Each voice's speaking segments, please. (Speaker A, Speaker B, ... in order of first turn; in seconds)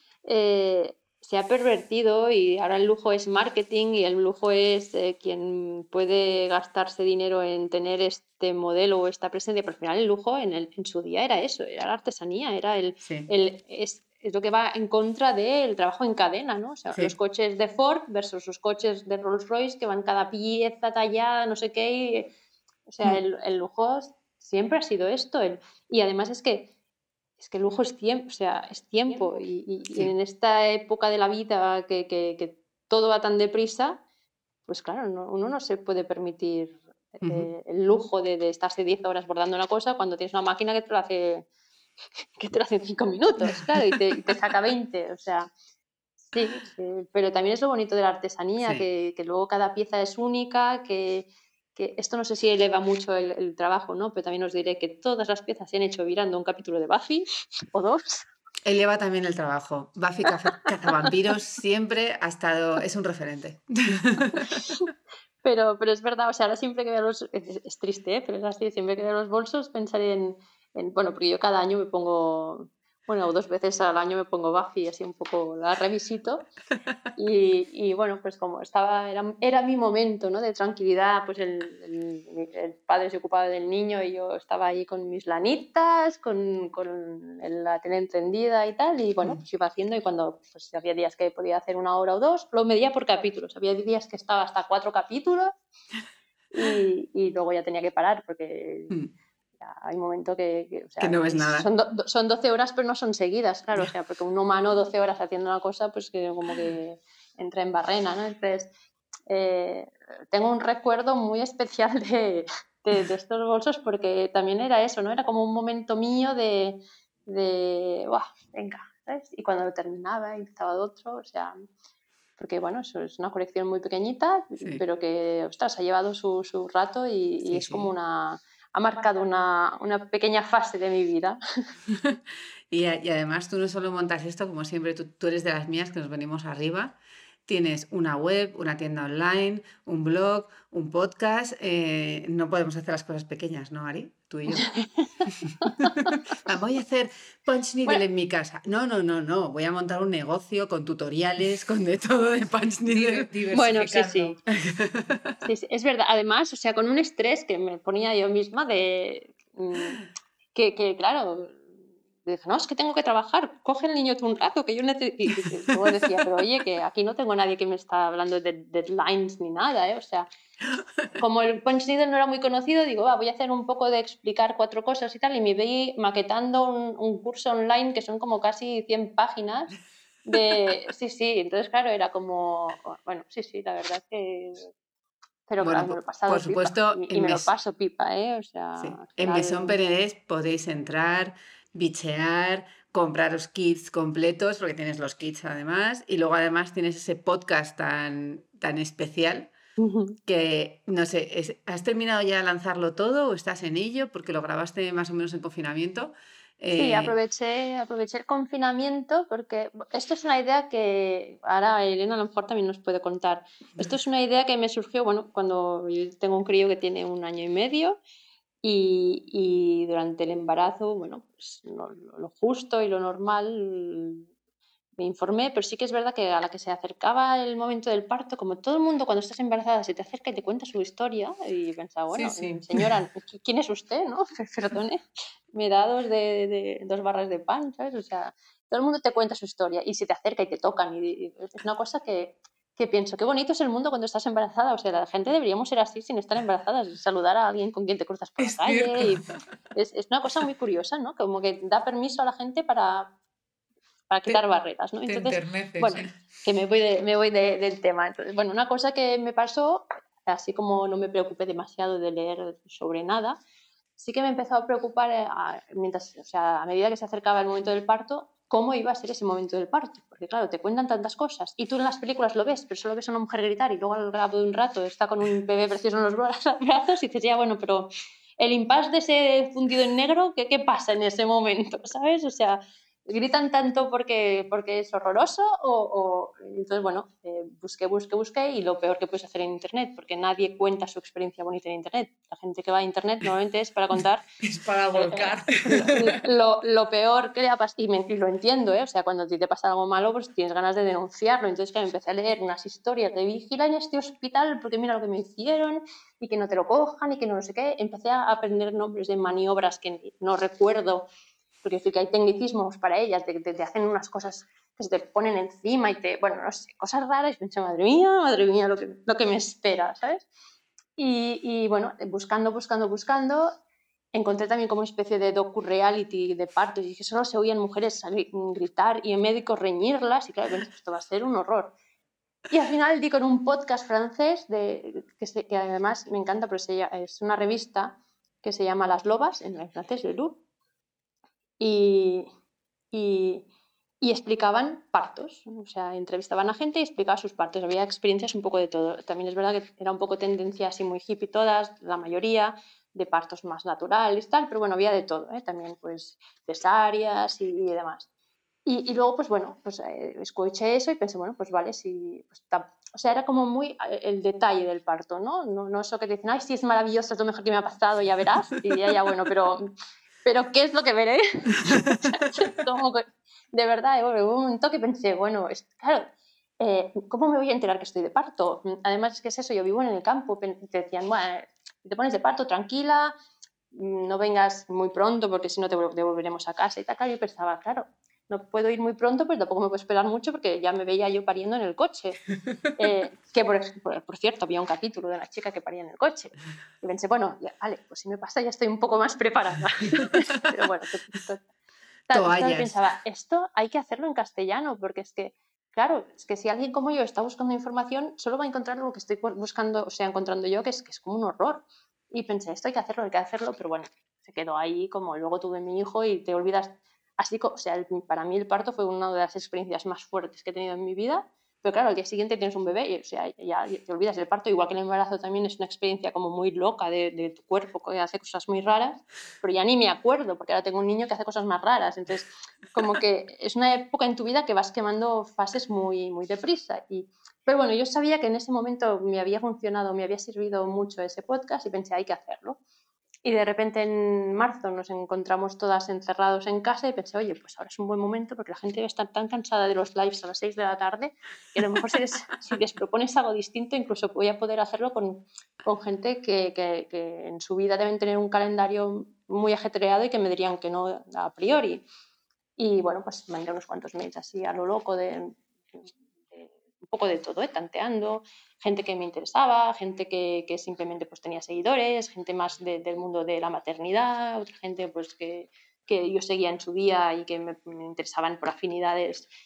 Speaker A: 0.3-22.3, 22.9-26.7, 27.4-34.0, 34.7-41.5, 42.2-45.5, 46.2-58.3, 64.3-64.9, 65.4-76.5, 77.2-95.5, 96.5-99.0, 99.6-108.7, 109.3-121.6, 122.4-131.4, 144.5-146.2, 153.5-154.4, 155.4-161.7, 162.2-170.3, 171.2-179.7, 180.2-184.7, 185.5-189.8, 199.8-200.2, 206.7-218.0, 218.6-224.3, 225.0-235.0, 235.5-253.1, 254.1-263.4, 264.0-294.2, 294.9-311.1, 311.6-320.3, 321.0-323.5, 324.1-331.7, 332.5-340.4, 341.6-342.3, 342.9-343.5, 344.0-358.1, 358.7-369.7, 370.2-376.1, 376.6-383.1, 383.7-392.2, 392.7-401.4, 402.1-442.6, 443.2-461.8, 462.6-465.4, 466.3-479.3
Speaker B: 13.0-13.3, 37.2-37.5, 48.6-48.9, 58.6-64.9, 101.0-101.7, 127.5-127.9, 131.9-132.2, 132.7-136.9, 137.5-144.7, 145.2-153.3, 154.5-155.3, 185.6-187.5, 188.8-199.5, 200.3-207.1, 248.6-249.3, 402.1-402.8
Speaker C: 152.9-154.4, 232.1-232.9, 255.1-256.1, 294.4-296.1